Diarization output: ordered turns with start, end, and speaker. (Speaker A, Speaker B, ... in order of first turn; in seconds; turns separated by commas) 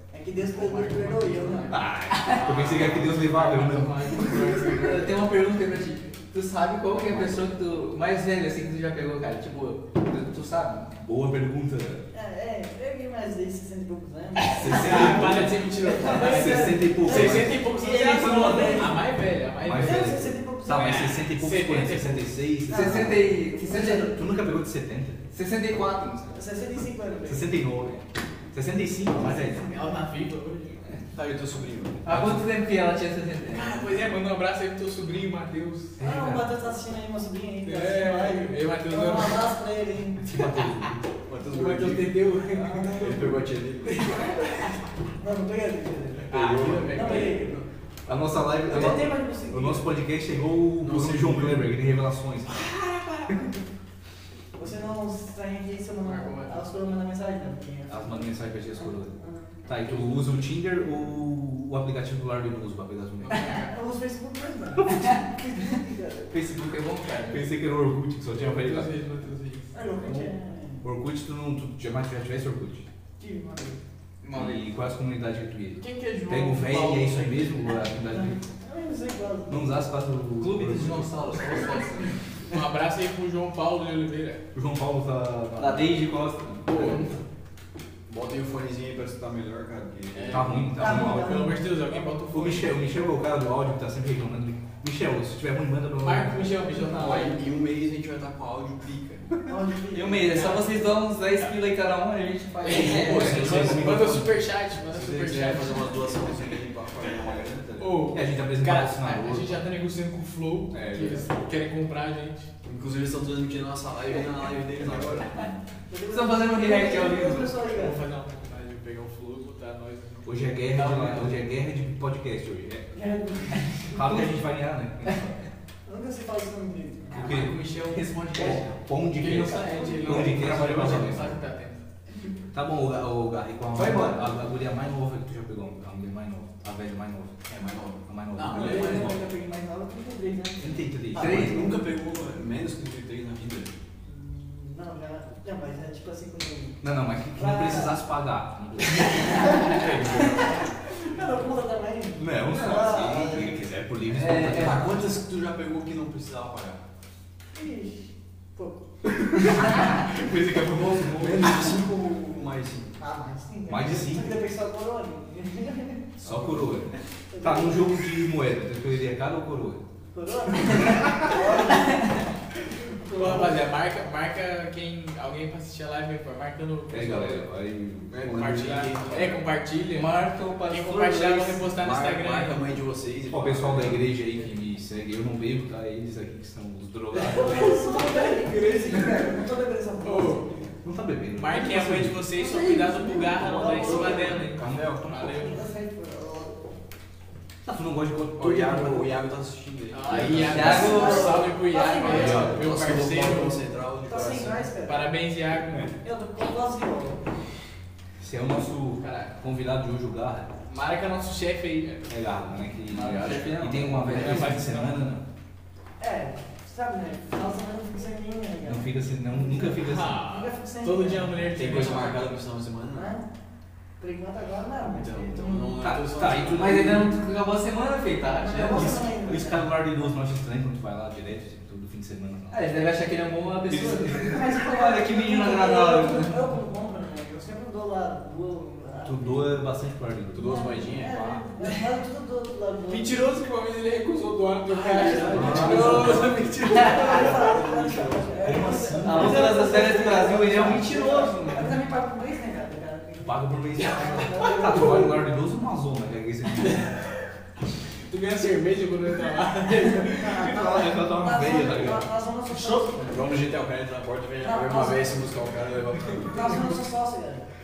Speaker A: 0.1-1.8, Speaker B: 0.4-5.2, Speaker C: 1.7-4.6, Speaker D: 2.2-2.5, Speaker D: 4.3-10.9, Speaker C: 10.9-12.0, Speaker A: 12.1-19.0, Speaker B: 14.4-20.1, Speaker C: 14.6-15.5, Speaker C: 16.1-17.6, Speaker C: 18.2-18.9, Speaker C: 19.6-25.2, Speaker A: 19.8-21.0, Speaker B: 20.7-22.3, Speaker D: 22.7-24.1, Speaker A: 23.5-24.1, Speaker D: 25.3-26.4, Speaker A: 26.3-27.6, Speaker C: 27.3-29.7, Speaker B: 29.1-30.9, Speaker E: 31.1-32.0, Speaker D: 32.0-33.7, Speaker C: 32.1-32.5, Speaker B: 33.5-36.0, Speaker C: 36.0-36.6, Speaker A: 36.0-40.3, Speaker B: 37.6-39.5, Speaker E: 40.3-42.1, Speaker B: 40.3-40.9, Speaker B: 41.5-44.7, Speaker A: 42.5-43.2, Speaker E: 42.9-44.1, Speaker A: 45.2-46.3, Speaker B: 46.3-47.5, Speaker E: 46.3-47.6, Speaker C: 46.3-46.9, Speaker A: 46.9-47.6, Speaker C: 48.1-52.7, Speaker A: 48.6-50.0, Speaker E: 50.8-51.7, Speaker B: 52.7-53.2, Speaker A: 54.6-59.6, Speaker B: 56.0-56.6, Speaker C: 57.9-59.1, Speaker C: 59.7-63.5, Speaker B: 63.2-63.7, Speaker A: 63.6-66.3, Speaker D: 66.3-67.5, Speaker C: 67.3-68.9, Speaker B: 68.6-69.7, Speaker A: 69.7-70.8, Speaker C: 70.0-70.3, Speaker C: 70.8-72.8, Speaker A: 73.2-73.8, Speaker D: 74.2-74.7, Speaker C: 74.3-78.4, Speaker B: 75.8-77.4, Speaker A: 78.6-79.7, Speaker C: 79.5-81.2, Speaker D: 80.4-82.2, Speaker B: 82.5-84.4, Speaker C: 84.5-86.6, Speaker D: 85.6-87.0, Speaker E: 86.7-87.0, Speaker E: 88.1-90.6, Speaker B: 90.1-92.8, Speaker C: 90.3-91.5, Speaker A: 90.8-91.6, Speaker C: 92.3-96.6, Speaker B: 96.0-97.4, Speaker E: 96.8-99.3, Speaker A: 99.5-100.5, Speaker D: 99.9-103.6, Speaker B: 100.3-100.6, Speaker B: 102.6-106.5, Speaker E: 102.6-104.3, Speaker C: 103.0-104.2, Speaker E: 104.9-108.1, Speaker B: 107.8-112.5, Speaker C: 108.1-109.6, Speaker C: 110.7-111.3, Speaker E: 112.6-115.5, Speaker A: 115.9-118.0, Speaker D: 116.1-117.6, Speaker B: 117.7-120.3, Speaker C: 120.2-122.9, Speaker D: 120.8-121.3, Speaker A: 122.9-124.3, Speaker C: 123.9-125.4, Speaker A: 125.9-127.2, Speaker D: 127.1-128.7, Speaker C: 127.2-127.7, Speaker B: 127.2-128.0, Speaker C: 128.3-131.4, Speaker B: 129.2-131.8, Speaker C: 132.5-137.4, Speaker D: 133.8-134.3, Speaker E: 137.5-139.1, Speaker C: 138.1-139.2, Speaker A: 138.5-140.9, Speaker C: 140.6-141.5, Speaker D: 141.2-141.8, Speaker E: 141.2-143.7, Speaker A: 144.1-146.8, Speaker C: 146.8-149.6, Speaker A: 147.3-148.0, Speaker A: 149.2-153.6, Speaker E: 149.6-150.8, Speaker C: 152.2-155.2, Speaker D: 154.1-154.9, Speaker E: 154.5-156.8, Speaker A: 157.5-158.8, Speaker C: 159.4-161.8, Speaker E: 161.1-163.0, Speaker A: 163.0-166.1, Speaker C: 163.7-164.4, Speaker C: 166.2-169.8, Speaker E: 166.2-166.7, Speaker A: 167.3-168.0, Speaker A: 170.1-172.1, Speaker A: 173.1-173.6, Speaker B: 173.1-177.4, Speaker C: 176.9-178.3, Speaker E: 178.1-179.4, Speaker B: 178.2-180.1, Speaker D: 179.9-181.7, Speaker B: 180.7-182.7, Speaker E: 181.7-184.1, Speaker C: 183.3-187.8, Speaker A: 187.2-190.5, Speaker B: 187.8-188.2, Speaker B: 190.0-190.5, Speaker C: 190.8-192.3, Speaker B: 191.4-195.6, Speaker A: 192.4-194.4, Speaker C: 193.4-195.3, Speaker E: 193.7-195.0, Speaker A: 195.2-196.7, Speaker C: 197.6-199.1, Speaker E: 198.4-200.9, Speaker B: 199.9-203.6, Speaker C: 200.1-201.0, Speaker D: 200.5-201.4, Speaker A: 200.6-202.6, Speaker C: 202.0-202.7, Speaker E: 202.2-204.7, Speaker A: 204.1-205.1, Speaker B: 204.9-205.9, Speaker A: 206.0-207.2, Speaker C: 208.2-210.5, Speaker B: 209.0-209.3, Speaker B: 210.7-212.1, Speaker C: 212.1-215.2, Speaker D: 212.9-214.6, Speaker E: 212.9-213.6, Speaker B: 214.0-215.0, Speaker A: 216.0-221.9, Speaker C: 218.7-220.2, Speaker B: 219.7-222.3, Speaker E: 221.6-223.1, Speaker A: 222.9-223.3, Speaker A: 224.0-225.8, Speaker E: 224.8-226.9, Speaker C: 225.8-227.1, Speaker D: 226.5-229.1, Speaker A: 228.4-229.7, Speaker C: 228.7-232.7, Speaker D: 232.5-234.5, Speaker C: 233.7-236.4, Speaker A: 233.9-239.5, Speaker C: 239.1-240.8, Speaker E: 240.3-241.5, Speaker A: 240.4-243.2, Speaker B: 242.9-247.4, Speaker E: 244.7-248.5, Speaker A: 244.9-255.3, Speaker C: 245.3-246.3, Speaker C: 248.4-250.8, Speaker D: 249.0-251.8, Speaker C: 253.2-256.9, Speaker B: 258.1-260.5, Speaker A: 260.1-263.2, Speaker C: 260.2-262.1, Speaker B: 262.5-262.9, Speaker E: 263.1-266.6, Speaker A: 264.4-265.2, Speaker A: 266.2-267.5